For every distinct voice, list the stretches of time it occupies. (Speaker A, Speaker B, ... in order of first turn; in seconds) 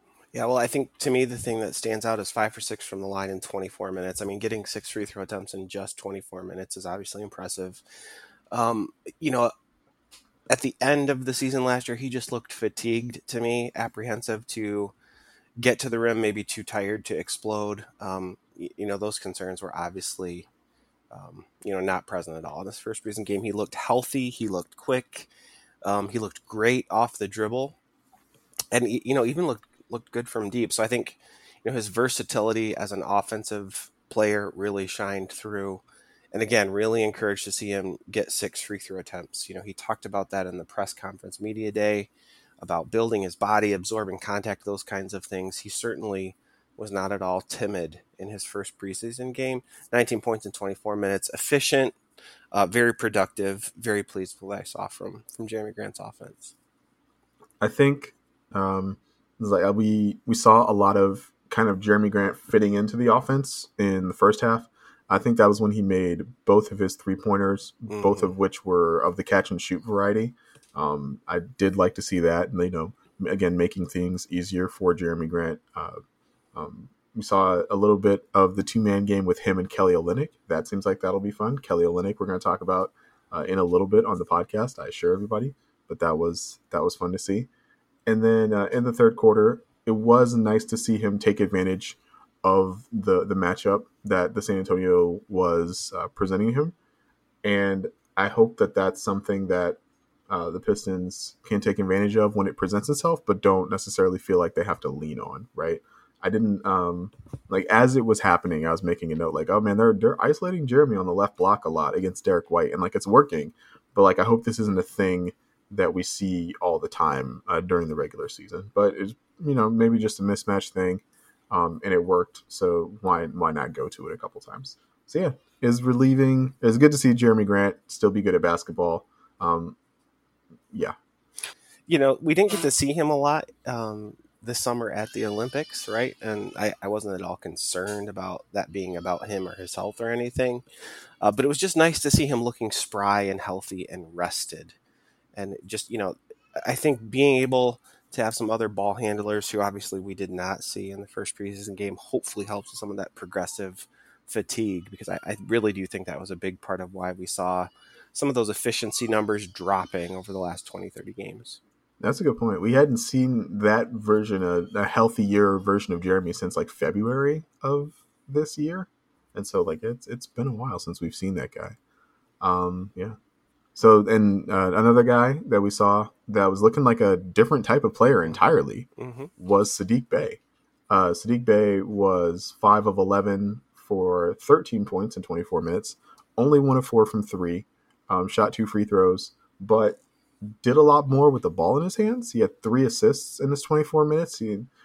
Speaker A: 0.3-7.8, 8.5-9.5, 10.5-14.9, 15.6-20.5, 21.1-25.3, 25.8-27.8, 28.7-35.8, 36.3-42.1, 42.6-52.0, 52.5-56.5, 67.9-68.3, 131.9-140.6, 141.2-144.7, 145.3-161.6, 179.0-179.3
Speaker B: 57.6-76.0, 76.5-87.5, 88.0-96.7, 97.4-129.8, 162.0-171.8, 172.4-173.2, 173.8-190.0, 190.6-194.7